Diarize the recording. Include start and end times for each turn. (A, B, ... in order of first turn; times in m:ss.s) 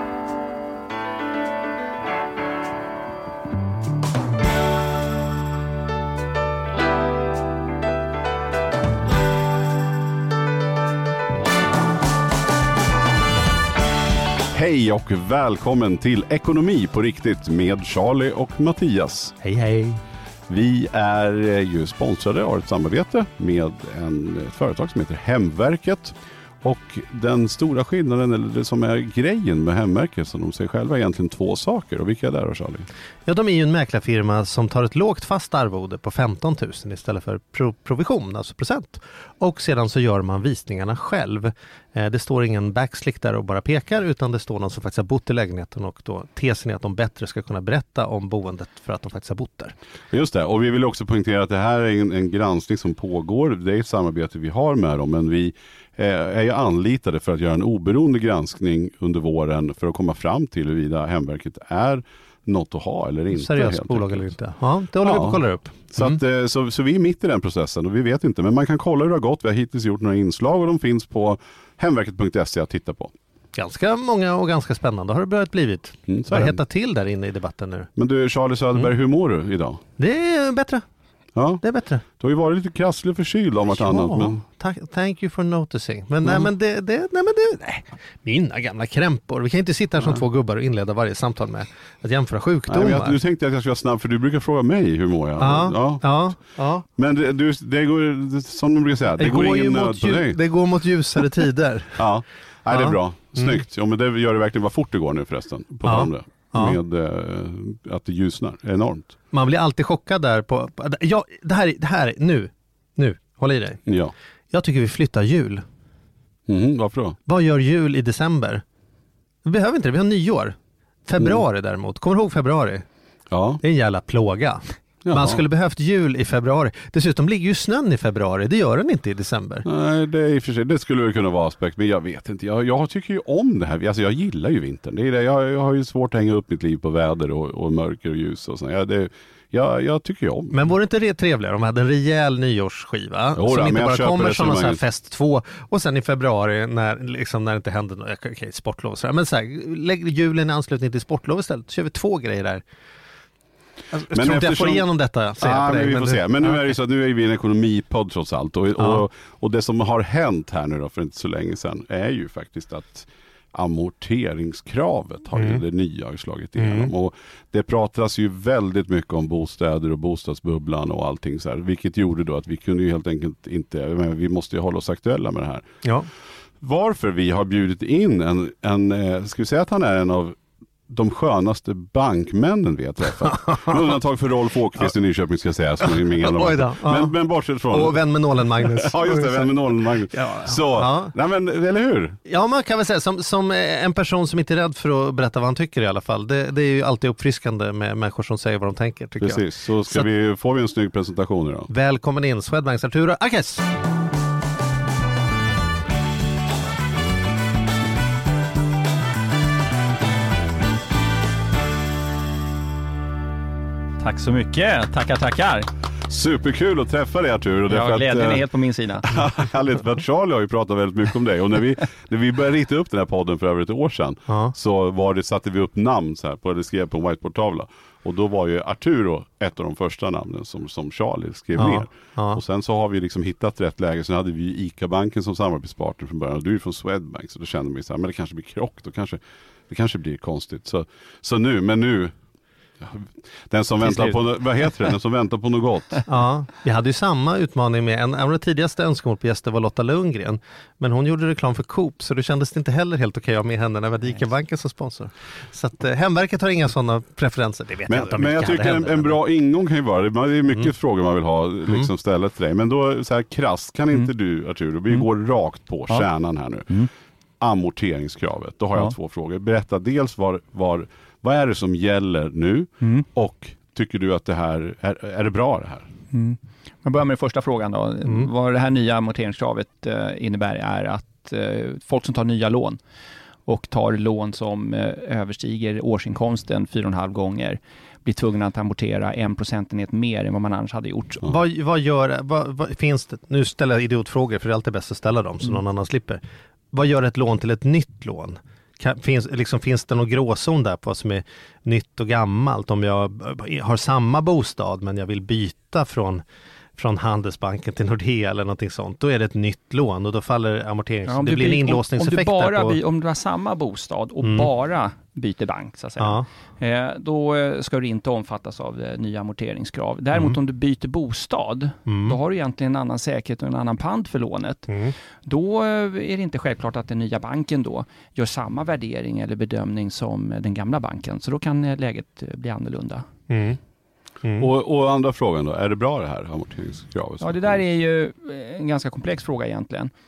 0:14.5-0:19.4 A
0:19.4-0:20.0 B
0:20.5-0:32.9 A
0:33.2-0:49.7 B
0:50.1-1:04.3 A
1:03.3-1:06.2 B
1:05.0-1:13.1 A
1:13.5-1:17.9 B
1:16.1-1:16.6 A
1:18.0-1:19.8 A
1:20.0-1:20.8 B
1:21.4-1:24.4 A
1:21.6-1:22.0 B
1:23.7-1:33.2 B
1:32.7-1:36.0 A
1:35.4-1:36.8 B
1:37.0-1:40.4 A
1:39.2-1:42.0 B
1:42.0-1:49.1 A
1:42.7-1:43.6 B
1:45.8-1:46.8 B
1:49.3-1:53.8 B
1:53.9-1:54.1 A
1:54.5-1:55.6 B
1:56.5-1:57.2 A
1:57.2-1:58.6 B
1:59.4-2:02.8 B
2:03.3-2:03.6 A
2:03.6-2:09.6 B
2:05.0-2:05.4 A
2:09.6-2:20.6 A
2:20.5-2:32.6 B
2:23.4-2:24.8 A
2:33.9-2:36.6 B
2:34.1-2:55.7 A
2:38.8-2:39.0 B
2:45.4-2:45.6 B
2:46.6-2:46.9 B
2:56.6-3:08.0 A
3:03.5-3:03.8 B
3:05.8-3:07.1 B
3:07.7-3:09.5 B
3:08.6-3:12.2 A
3:10.1-3:11.1 B
3:12.2-3:20.0 B
3:19.2-3:21.7 A
3:21.7-3:23.6 B
3:34.0-3:35.7 C
3:36.1-3:38.4 A
3:37.7-3:39.1 C
3:39.0-4:02.1 A
3:44.3-3:44.5 B
3:51.6-3:52.4 B
4:02.8-4:06.0 A
4:06.0-4:19.2 B
4:17.9-4:26.7 A
4:27.4-4:35.9 A
4:36.1-4:42.8 C
4:38.0-4:38.3 B
4:43.5-4:51.3 C
4:51.2-4:56.2 B
4:56.7-5:06.2 B
5:06.8-5:12.8 B
5:11.1-5:24.7 C
5:14.2-5:14.5 B
5:16.0-5:16.2 B
5:20.1-5:20.4 B
5:21.9-5:22.2 B
5:24.7-5:24.9 B
5:25.2-5:33.1 C
5:33.3-5:33.6 B
5:34.2-5:34.5 B
5:34.4-5:37.6 A
5:37.2-5:39.9 C